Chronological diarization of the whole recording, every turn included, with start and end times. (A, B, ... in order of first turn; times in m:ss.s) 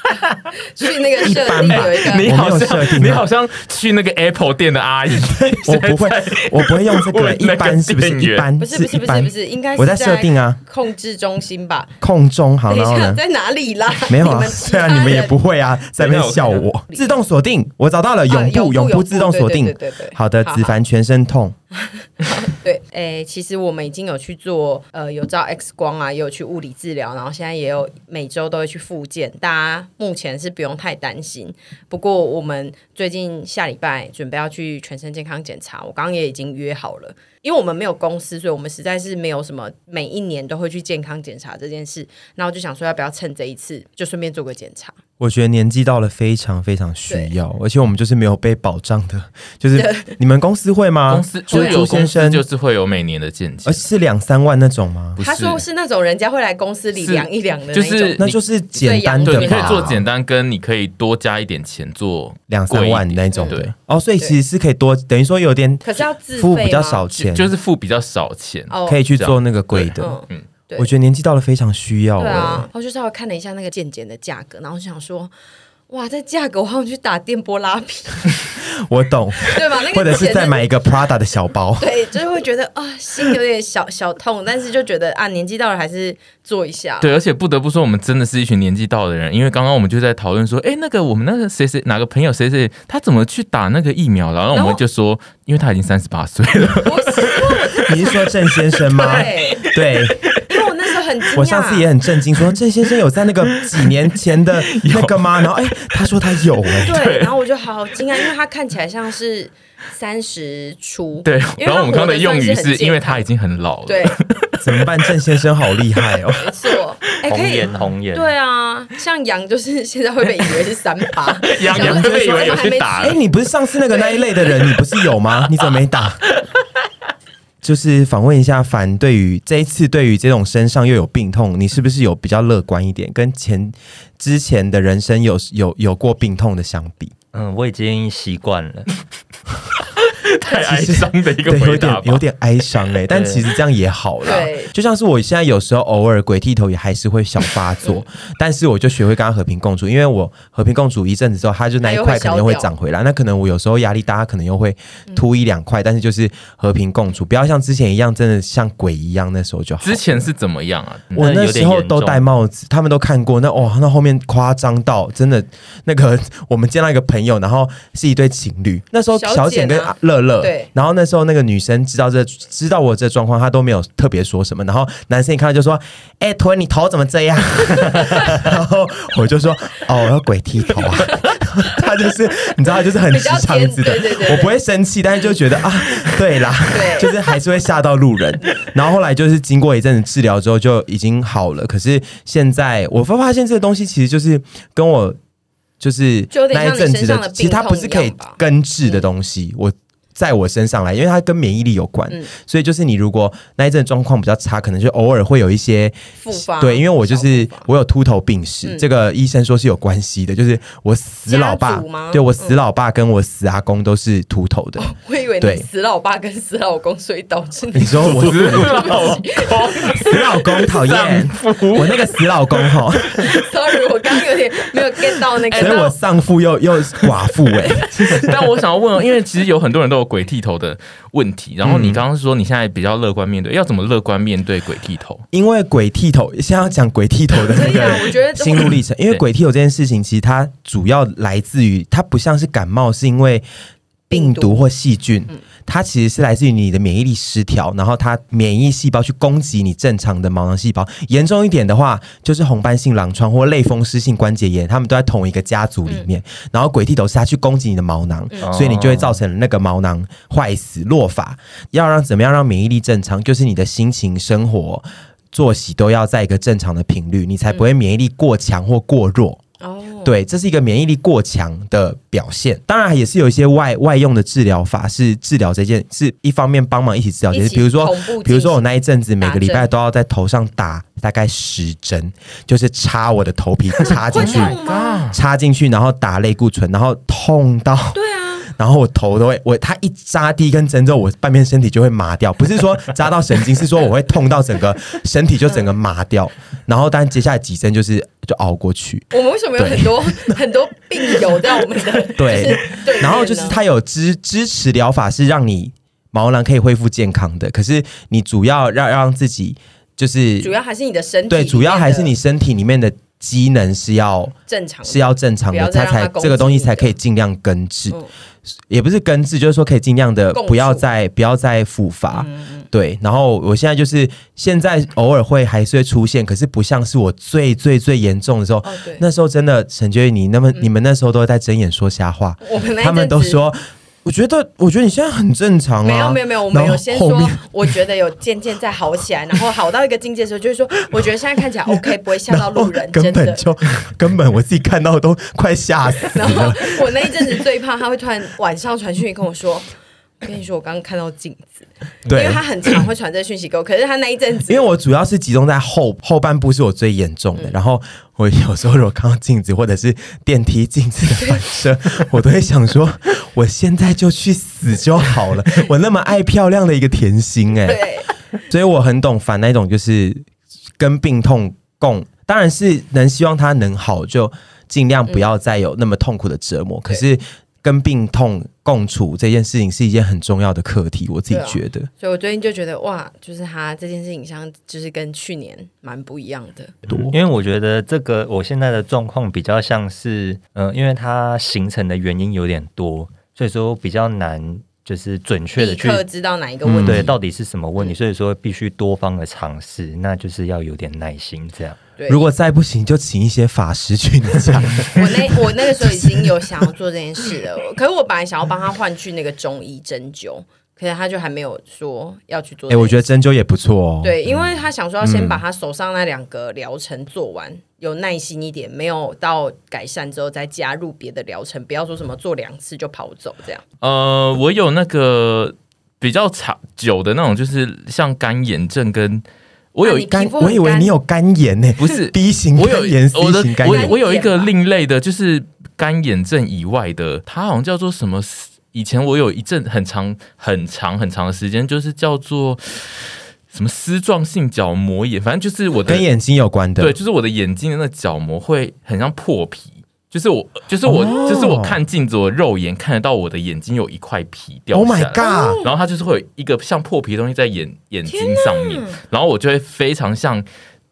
0:00.6-0:02.3 A
0:01.2-0:03.2 B
0:01.6-0:08.5 C
0:05.1-0:10.6 B
0:08.6-0:11.9 A
0:12.0-0:13.2 B
0:12.7-0:15.3 A
0:14.1-0:21.5 B
0:16.0-0:16.7 C
0:16.9-0:17.2 A
0:18.3-0:20.8 A
0:21.8-0:45.0 A
0:45.2-0:52.4 B
0:47.1-0:47.3 A
0:49.8-0:50.2 A
0:51.1-0:53.9 C
0:51.5-0:51.8 A
0:53.6-0:55.2 B
0:55.2-0:55.6 C
0:55.2-0:58.2 A
0:56.9-0:58.4 C
0:58.2-1:00.0 B
0:58.8-1:00.0 A
0:59.2-1:03.7 C
1:02.5-1:07.5 B
1:03.3-1:03.6 A
1:05.8-1:07.1 A
1:07.1-1:10.4 C
1:08.7-1:09.0 A
1:08.8-1:10.2 B
1:10.0-1:10.9 A
1:10.8-1:12.7 B
1:12.2-1:15.3 A
1:15.9-1:18.3 A
1:18.8-1:22.0 B
1:19.4-1:20.7 A
1:21.8-1:27.1 A
1:27.0-1:38.2 C
1:34.5-1:34.8 A
1:36.8-1:37.9 A
1:37.8-1:40.2 B
1:38.7-1:40.5 C
1:39.0-1:39.6 A
1:40.5-1:41.9 A
1:41.4-1:47.0 B
1:43.5-1:45.5 C
1:46.5-1:47.3 C
1:46.8-1:53.2 A
1:51.2-1:54.8 C
1:53.8-1:54.2 A
1:54.6-1:56.5 B
1:56.4-2:03.2 A
1:57.3-1:58.3 D
2:01.4-2:03.2 C
2:01.7-2:06.2 B
2:03.9-2:04.3 A
2:07.6-2:17.1 B
2:17.3-2:18.9 D
2:19.8-2:22.2 C
2:20.5-2:40.2 B
2:23.1-2:23.4 D
2:24.2-2:24.7 A
2:31.8-2:32.7 A
2:39.8-2:41.3 C
2:41.2-2:42.3 D
2:41.2-3:15.2 B
2:49.1-2:50.7 A
2:57.8-2:58.4 A
3:01.0-3:01.4 A
3:03.1-3:04.6 A
3:06.7-3:07.2 A
3:15.8-3:35.7 B
3:16.3-3:19.1 A
3:26.2-3:27.7 A
3:31.3-3:32.6 A
3:34.8-3:40.1 A
3:37.7-3:39.2 B
3:38.0-3:42.8 C
3:40.0-3:43.3 B
3:43.1-3:46.0 A
3:45.4-3:45.9 C
3:45.5-3:48.4 B
3:47.8-3:55.2 C
3:51.6-3:52.0 B
3:55.3-4:03.4 B
3:57.5-3:58.7 A
4:04.1-4:29.4 B
4:04.1-4:04.6 A
4:18.4-4:19.2 D
4:29.6-4:30.1 A
4:30.0-4:44.6 B
4:37.3-4:38.6 A
4:39.2-4:39.7 A
4:43.9-4:45.1 A
4:44.1-4:45.2 C
4:45.1-5:00.4 B
4:47.9-4:48.5 A
4:55.5-4:55.7 A
4:59.1-5:03.6 A
5:02.1-5:10.5 B
5:10.4-5:12.1 A
5:11.3-5:37.7 B
5:14.5-5:16.9 A
5:20.3-5:20.9 A
5:22.1-5:22.7 A
5:28.6-5:29.0 A
5:32.4-5:33.4 A
5:35.8-5:43.4 A
5:41.7-5:47.1 B
5:46.1-5:49.7 A
5:50.2-5:54.6 A
5:52.1-5:52.4 B
5:54.5-6:07.9 B
6:07.6-6:08.1 A
6:08.5-6:10.2 B
6:10.8-6:21.9 B
6:21.3-6:26.7 A
6:26.9-6:27.1 B
6:26.9-6:36.0 D
6:35.6-6:37.1 A
6:36.6-6:37.0 B
6:36.8-6:41.8 D
6:42.0-6:42.2 A
6:42.1-6:46.6 B
6:44.9-6:53.0 A
6:52.7-6:55.4 B
6:54.0-7:03.6 A
7:03.8-7:10.1 C
7:09.8-7:10.9 A
7:10.1-7:13.9 B
7:11.8-7:26.0 C
7:13.6-7:14.5 A
7:25.8-7:27.0 B
7:26.8-7:40.5 C
7:30.8-7:31.8 B
7:31.0-7:31.4 A
7:34.7-7:35.6 B
7:35.2-7:35.7 A
7:38.1-7:39.0 A